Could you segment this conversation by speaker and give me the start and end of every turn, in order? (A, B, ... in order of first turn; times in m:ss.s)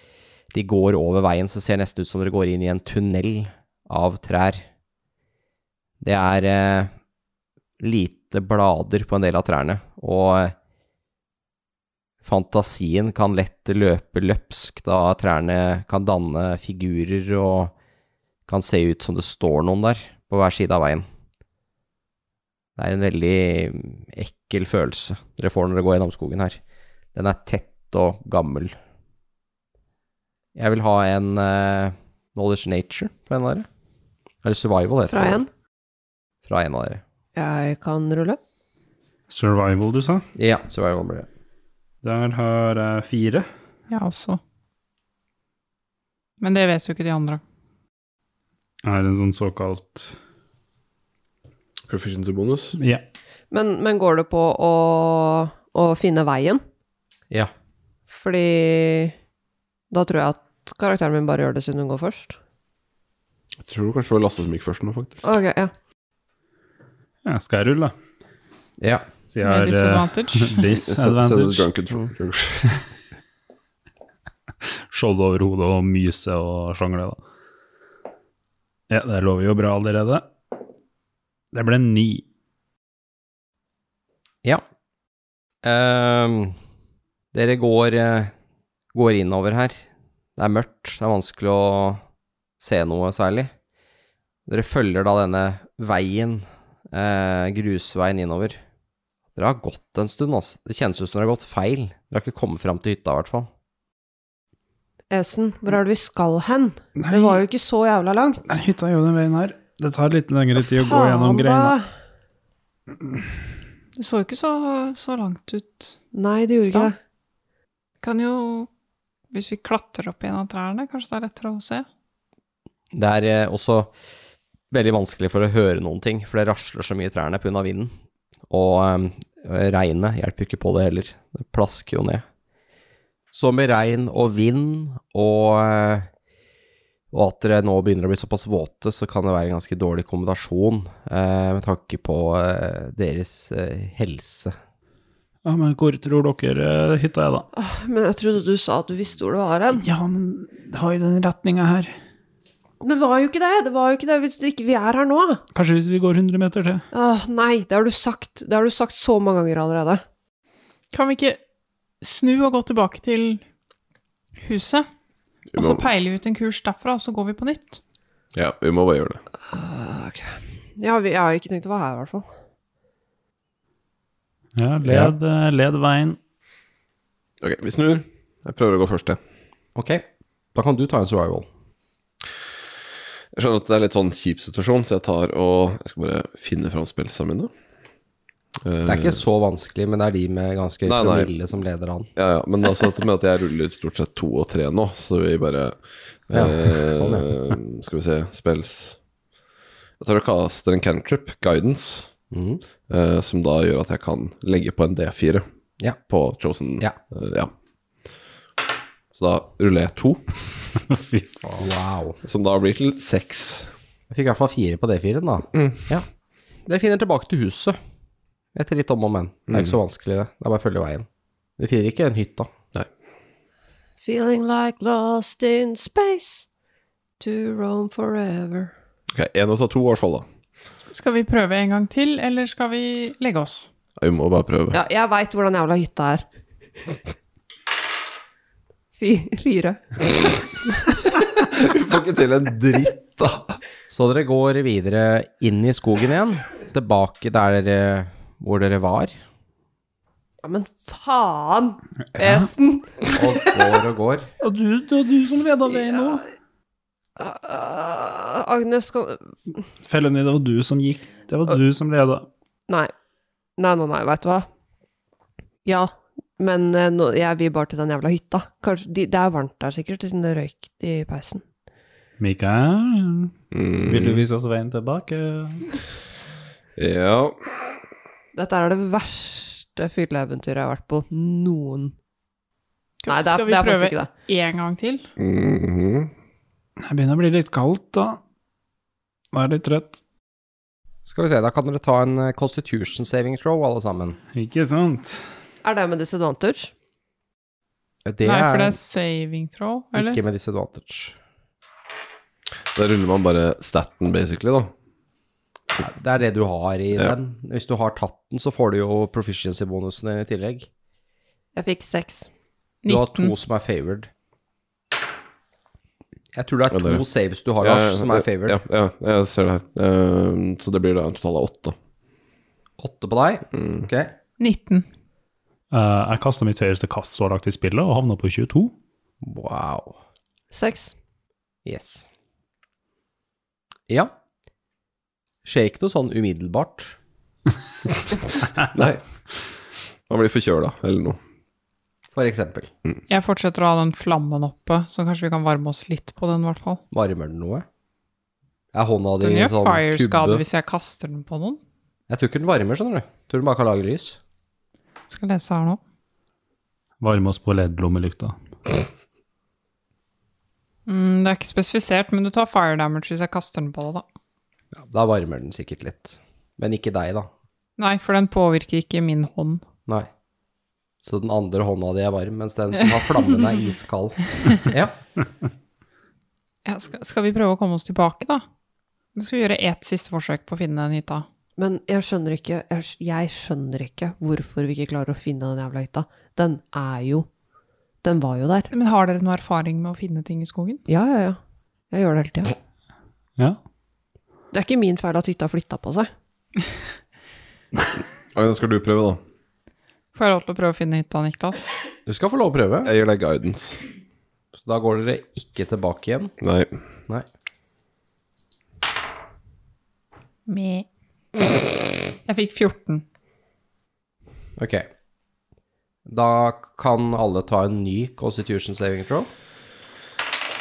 0:00.5-0:04.6 A
0:06.0-0:06.9 A
0:07.8-0:10.6 A
0:12.2-0:17.7 A
0:18.5-0:21.1 A
0:22.8-0:26.6 A
0:27.1-0:28.8 A
0:30.6-0:33.7 A
0:34.4-0:35.4 A
0:35.1-0:35.5 B
0:36.4-0:37.0 A
0:37.4-0:38.4 B
0:39.3-0:40.3 C
0:40.4-0:41.3 A
0:42.0-0:43.5 C
0:43.9-0:44.4 D
0:46.4-0:47.4 D
0:48.8-0:50.2 C
0:51.9-0:52.8 E
0:52.8-0:53.0 C
0:53.5-0:56.6 B
0:58.1-0:59.2 B
0:59.9-1:02.4 B
1:03.6-1:05.3 E
1:05.2-1:05.7 B
1:07.2-1:08.0 C
1:08.8-1:09.1 A
1:09.3-1:11.7 C
1:09.4-1:10.7 D
1:10.8-1:12.8 E
1:14.9-1:17.2 C
1:18.9-1:20.3 C
1:21.5-1:22.2 C
1:25.6-1:26.6 A
1:27.3-1:28.3 A
1:28.9-1:29.8 A
1:30.4-1:32.0 A
1:32.6-1:33.5 A
1:34.5-1:38.6 A
1:39.4-1:43.5 A
1:45.1-1:48.5 B
1:47.0-1:47.4 C
1:48.5-1:51.8 C
1:50.6-1:51.9 B
1:54.0-1:56.0 D
1:56.1-1:57.0 B
1:56.6-1:56.9 D
1:58.0-1:58.7 D
1:59.3-2:01.9 D
2:02.9-2:03.9 A
2:04.7-2:07.9 A
2:08.5-2:12.2 A
2:13.3-2:16.1 A
2:17.1-2:24.6 A
2:25.4-2:27.5 C
2:27.5-2:29.8 B
2:29.8-2:32.0 C
2:32.8-2:35.4 B
2:35.5-2:36.8 C
2:36.9-2:40.0 B
2:40.9-2:41.4 D
2:42.0-2:43.4 D
2:44.4-2:44.9 D
2:45.5-2:45.9 E
2:45.6-2:47.8 D
2:48.3-2:49.2 E
2:49.5-2:52.3 B
2:54.6-2:56.2 C
2:54.8-2:55.1 A
2:57.4-2:59.2 E
2:59.8-3:01.5 A
3:03.3-3:07.5 E
3:08.6-3:09.2 E
3:08.9-3:12.1 A
3:10.9-3:11.3 E
3:12.2-3:15.8 E
3:16.3-3:19.0 E
3:16.3-3:17.3 A
3:20.0-3:22.1 E
3:22.3-3:22.6 A
3:22.9-3:25.4 E
3:26.1-3:27.5 E
3:29.1-3:30.4 E
3:30.9-3:31.4 C
3:31.5-3:32.2 A
3:32.2-3:33.7 E
3:34.1-3:36.1 A
3:35.5-3:35.8 E
3:36.7-3:37.8 A
3:38.6-3:41.1 A
3:39.5-3:39.8 E
3:41.6-3:42.5 A
3:44.0-3:46.5 B
3:47.2-3:48.7 B
3:49.1-3:50.3 E
3:50.9-3:53.7 D
3:54.0-3:54.8 E
3:54.7-3:56.2 B
3:59.0-3:59.8 B
4:01.4-4:03.6 E
4:03.9-4:09.2 A
4:10.4-4:13.2 B
4:12.2-4:12.5 C
4:13.1-4:14.3 A
4:14.4-4:16.2 C
4:15.7-4:16.2 B
4:17.2-4:19.4 B
4:19.8-4:22.3 C
4:23.6-4:24.5 B
4:25.7-4:31.4 B
4:32.2-4:35.6 C
4:33.5-4:34.2 E
4:36.8-4:37.4 E
4:38.4-4:42.0 B
4:43.0-4:45.1 D
4:43.1-4:44.1 B
4:45.2-4:46.1 E
4:46.8-4:48.2 C
4:49.3-4:50.0 C
4:51.0-4:54.2 A
4:54.3-4:55.2 C
4:55.6-4:56.7 B
4:58.1-4:58.8 A
4:58.2-5:00.2 D
5:00.0-5:01.2 A
5:02.7-5:04.7 E
5:05.7-5:10.7 A
5:11.6-5:12.3 B
5:12.8-5:13.3 D
5:12.9-5:14.1 A
5:16.3-5:18.6 A
5:16.7-5:17.0 E
5:17.6-5:21.8 E
5:22.8-5:24.2 A
5:23.6-5:23.9 E
5:24.4-5:24.8 D
5:25.7-5:28.7 C
5:29.2-5:30.0 A
5:30.5-5:30.9 B
5:31.6-5:32.1 A
5:35.4-5:37.0 A
5:38.6-5:39.0 E
5:40.1-5:41.2 E
5:42.1-5:42.7 A
5:43.1-5:46.8 D
5:46.9-5:47.7 A
5:48.7-5:50.4 A
5:49.2-5:51.6 D
5:52.1-5:54.2 A
5:55.1-5:55.8 D
5:57.0-5:58.4 C
6:00.9-6:04.0 D
6:04.8-6:07.3 A
6:07.8-6:09.6 D
6:11.0-6:15.0 A
6:16.6-6:18.4 D
6:19.2-6:21.3 D
6:21.6-6:27.3 B
6:28.0-6:28.7 B
6:28.7-6:30.8 D
6:30.9-6:31.4 B
6:31.9-6:32.5 B
6:34.5-6:36.1 B
6:38.3-6:39.2 E
6:40.1-6:41.7 D
6:42.1-6:42.9 A
6:42.8-6:43.8 E
6:44.6-6:46.3 A
6:46.4-6:46.7 E
6:50.5-6:50.9 D
6:52.3-6:53.0 D
6:54.6-6:54.9 A
6:56.1-6:59.3 A